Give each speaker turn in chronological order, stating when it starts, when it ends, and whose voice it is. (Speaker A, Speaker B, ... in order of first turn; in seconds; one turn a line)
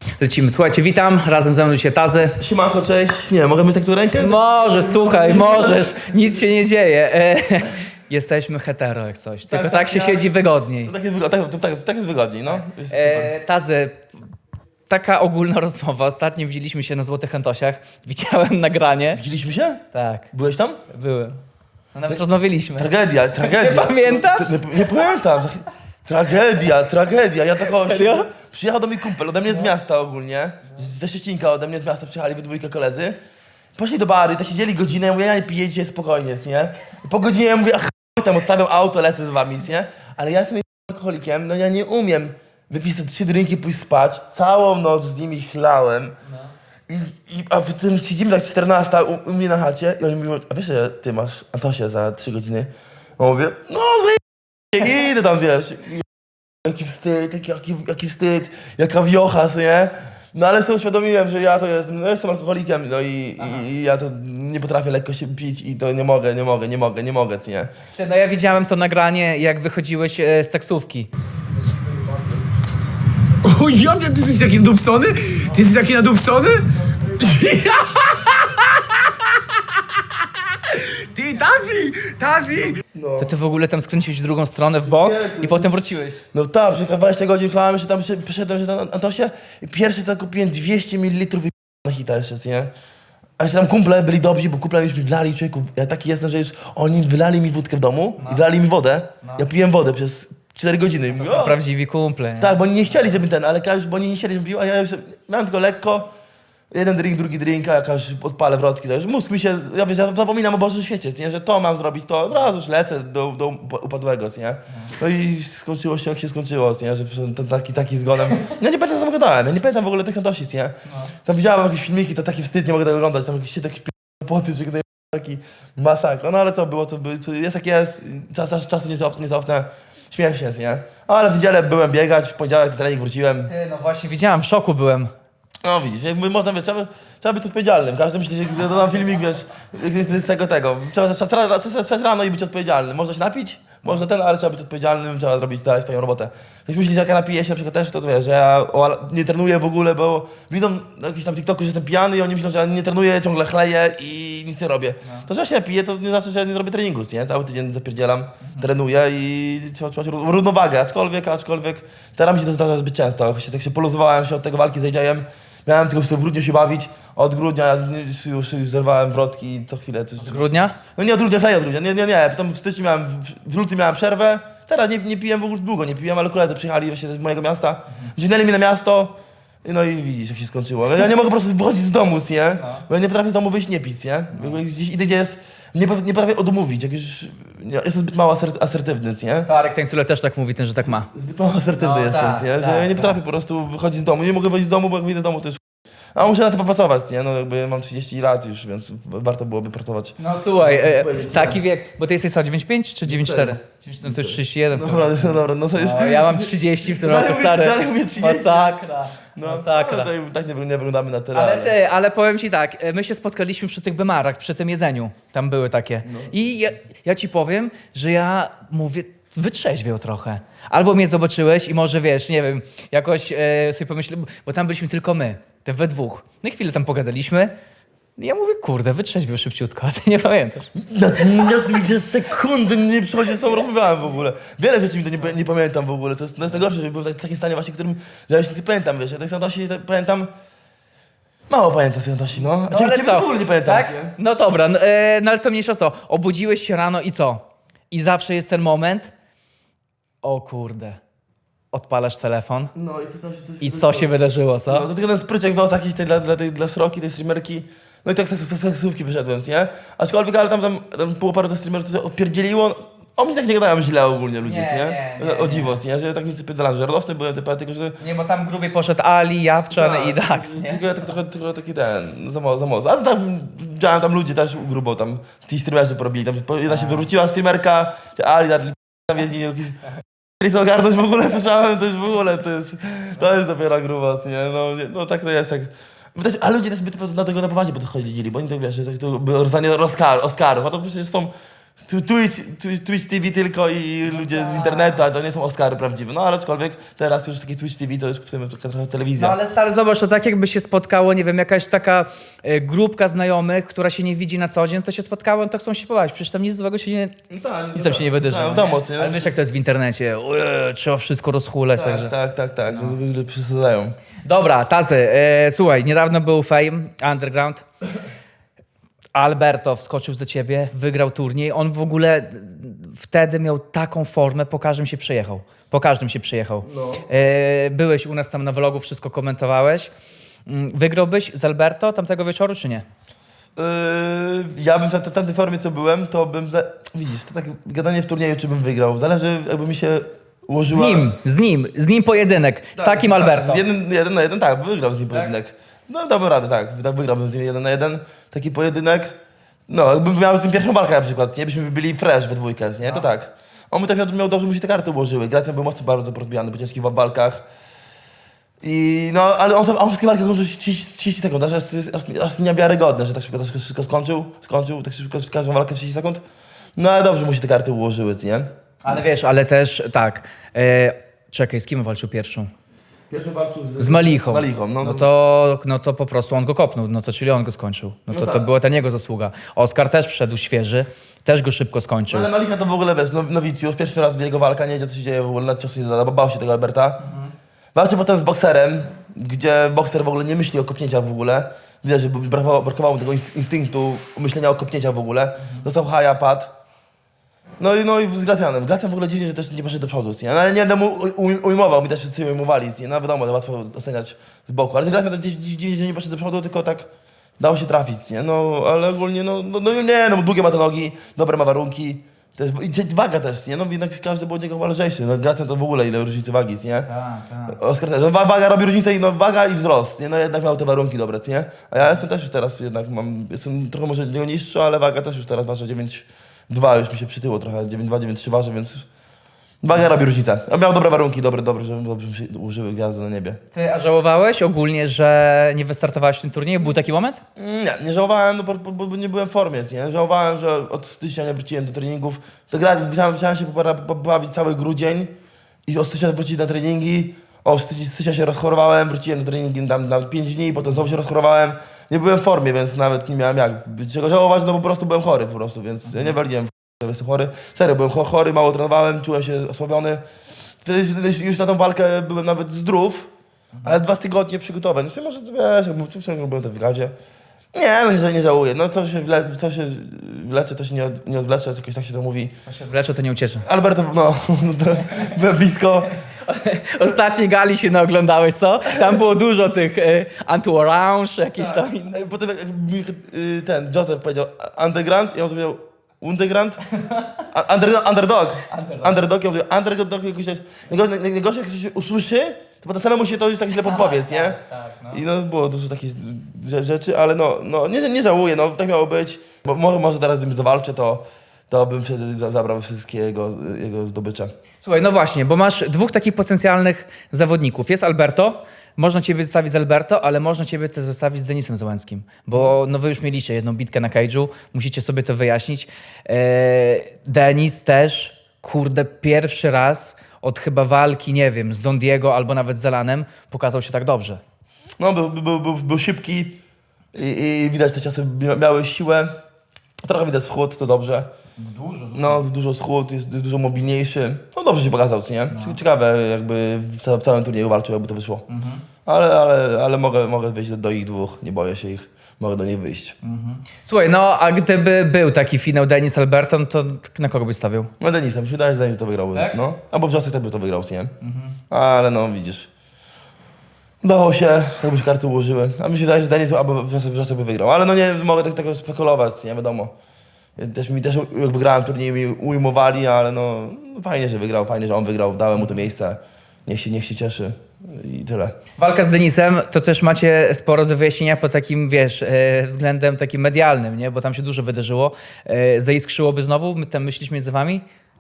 Speaker A: 0.2-2.4
Speaker B: 2.4-6.1
Speaker A: 4.2-10.9
Speaker B: 9.5-10.3
Speaker B: 10.8-13.3
Speaker A: 12.5-14.1
Speaker A: 14.9-19.2
Speaker B: 19.1-20.8
Speaker A: 19.9-20.3
Speaker A: 20.9-21.4
Speaker A: 21.9-24.9
Speaker B: 22.1-33.2
Speaker A: 27.6-28.3
Speaker B: 33.8-46.1
Speaker B: 46.9-56.0
Speaker B: 56.6-67.7
Speaker A: 67.9-71.1
Speaker C: 73.5-78.3
Speaker C: 80.9-82.8
Speaker B: 82.9-83.3
Speaker A: 83.2-86.2
Speaker B: 84.8-92.7
Speaker B: 93.4-101.6
Speaker A: 99.2-99.5
Speaker A: 101.1-102.6
Speaker B: 102.4-106.1
Speaker B: 106.7-133.5
Speaker A: 133.5-135.1
Speaker B: 135.6-189.5
Speaker A: 158.4-158.7
Speaker A: 170.2-170.8
Speaker A: 182.6-182.8
Speaker A: 189.4-191.1
Speaker B: 191.0-195.6
Speaker A: 191.8-193.2
Speaker B: 196.1-201.6
Speaker A: 200.2-210.1
Speaker B: 203.1-208.8
Speaker B: 209.3-211.8
Speaker A: 211.3-227.5
Speaker B: 216.0-216.3
Speaker A: 228.2-230.7
Speaker B: 230.7-240.3
Speaker B: 241.5-244.2
Speaker A: 242.7-249.1
Speaker A: 250.2-251.0
Speaker A: 251.7-252.7
Speaker B: 252.7-254.2
Speaker A: 253.6-254.9
Speaker B: 254.7-268.0
Speaker A: 264.4-265.8
Speaker A: 268.0-270.9
Speaker B: 269.7-279.8
Speaker A: 276.7-277.1
Speaker B: 280.4-299.4
Speaker A: 294.0-295.0
Speaker A: 299.2-307.1
Speaker B: 307.3-309.3
Speaker A: 307.7-312.1
Speaker B: 311.8-313.9
Speaker A: 312.7-313.0
Speaker A: 314.2-317.6
Speaker A: 319.1-329.9
Speaker B: 326.6-327.1
Speaker A: 330.4-332.8
Speaker B: 333.6-341.1
Speaker A: 340.7-343.6
Speaker B: 342.8-349.1
Speaker A: 345.1-345.4
Speaker B: 349.7-357.4
Speaker A: 352.8-353.1
Speaker B: 358.6-366.2
Speaker B: 366.8-368.5
Speaker A: 368.8-372.5
Speaker B: 373.1-375.1
Speaker A: 373.8-382.3
Speaker B: 378.1-378.4
Speaker B: 382.1-387.0
Speaker A: 387.0-387.3
Speaker B: 387.7-396.5
Speaker A: 395.4-395.7
Speaker B: 397.6-406.9
Speaker B: 407.4-416.9
Speaker A: 416.8-417.6
Speaker B: 417.5-428.9
Speaker B: 429.6-433.4
Speaker A: 433.5-437.2
Speaker B: 437.4-445.1
Speaker B: 445.6-460.0
Speaker A: 455.9-456.1
Speaker B: 460.6-463.1
Speaker A: 463.5-463.8
Speaker B: 463.6-466.9
Speaker B: 467.5-472.3
Speaker A: 472.4-473.5
Speaker B: 473.4-475.9
Speaker A: 476.2-482.0
Speaker B: 481.4-486.6
Speaker A: 486.7-487.2
Speaker B: 487.3-504.3
Speaker A: 488.5-489.0
Speaker A: 493.6-495.0
Speaker A: 504.6-524.2
Speaker B: 524.8-526.4
Speaker B: 526.9-529.1
Speaker B: 529.8-531.1
Speaker A: 531.4-532.2
Speaker B: 531.9-538.2
Speaker A: 535.3-535.6
Speaker A: 538.3-538.6
Speaker B: 538.8-543.0
Speaker A: 543.0-547.7
Speaker B: 547.8-550.9
Speaker A: 549.1-549.4
Speaker A: 551.0-551.4
Speaker B: 551.5-552.5
Speaker B: 553.8-559.7
Speaker B: 560.4-568.4
Speaker A: 568.6-577.6